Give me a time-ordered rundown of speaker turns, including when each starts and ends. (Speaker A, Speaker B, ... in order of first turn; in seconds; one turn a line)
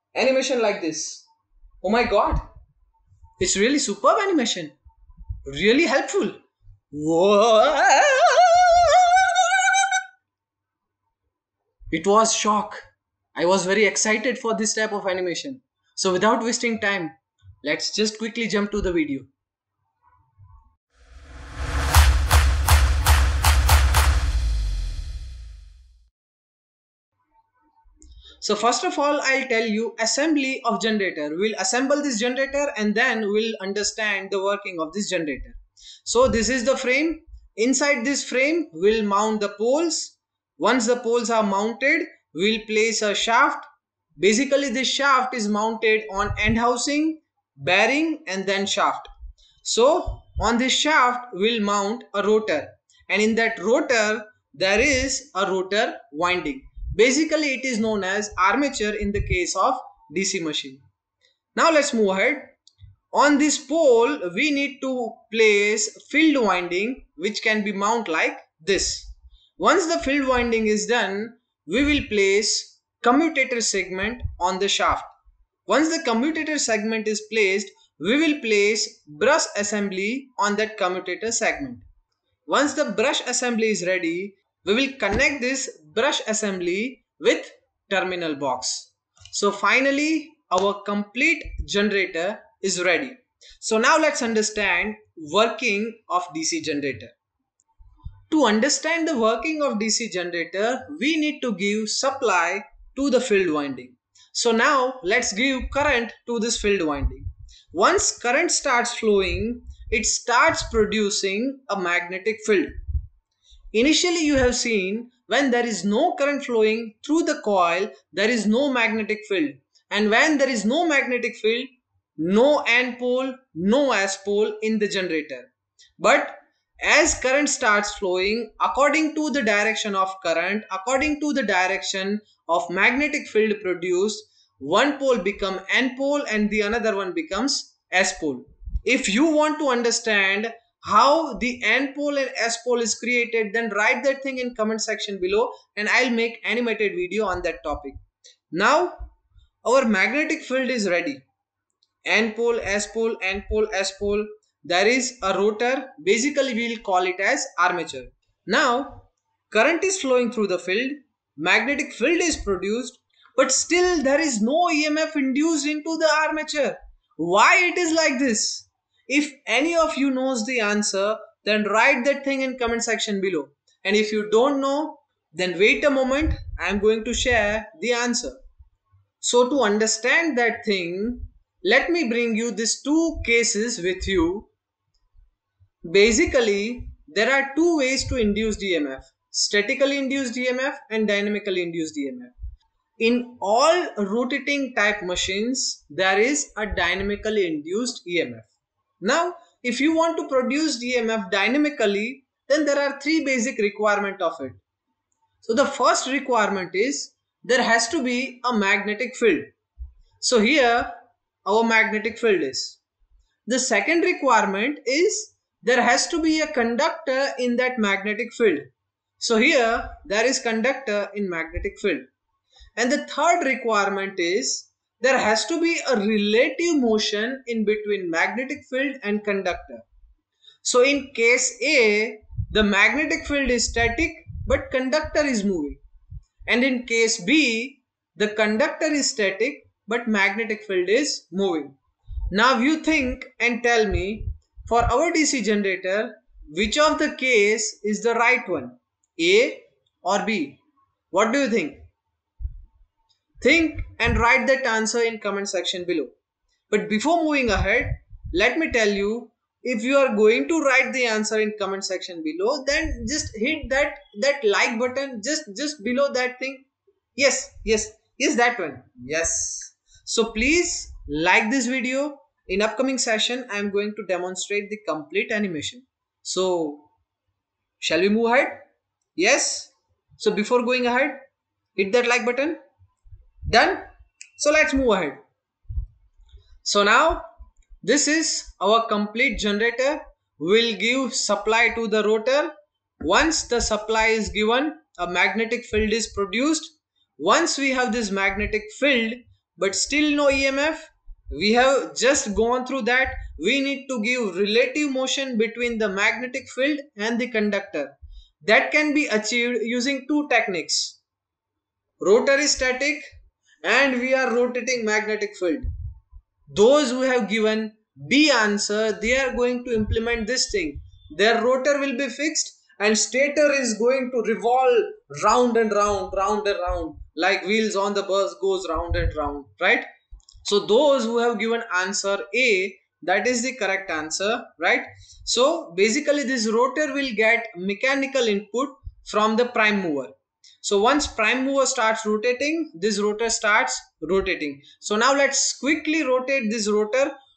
Speaker A: 0.1-1.2
Speaker A: 1.8-2.4
Speaker A: 3.4-4.7
Speaker A: 5.5-6.4
Speaker A: 6.9-9.8
Speaker A: 11.9-12.8
Speaker A: 13.3-19.3
Speaker A: 28.4-49.1
Speaker A: 49.6-60.8
Speaker A: 61.5-62.5
Speaker A: 63.1-75.1
Speaker A: 75.7-81.8
Speaker A: 82.5-97.1
Speaker A: 98.3-112.7
Speaker A: 113.7-148.0
Speaker A: 148.5-149.1
Speaker A: 149.6-151.2
Speaker A: 152.0-178.4
Speaker A: 179.2-184.5
Speaker A: 185.8-192.3
Speaker A: 193.0-204.6
Speaker A: 205.4-209.5
Speaker A: 210.2-210.9
Speaker A: 211.4-212.8
Speaker A: 213.4-218.7
Speaker A: 219.2-222.0
Speaker A: 222.8-229.8
Speaker A: 230.6-235.8
Speaker A: 236.5-241.8
Speaker A: 242.3-250.6
Speaker A: 251.1-251.8
Speaker A: 253.4-256.1
Speaker A: 256.7-276.9
Speaker A: 277.8-278.6
Speaker A: 279.2-281.2
Speaker A: 281.8-282.6
Speaker A: 283.4-285.2
Speaker A: 286.6-287.3
Speaker A: 287.8-311.0
Speaker A: 312.0-313.0
Speaker A: 313.6-315.6
Speaker A: 316.5-329.9
Speaker A: 330.4-347.1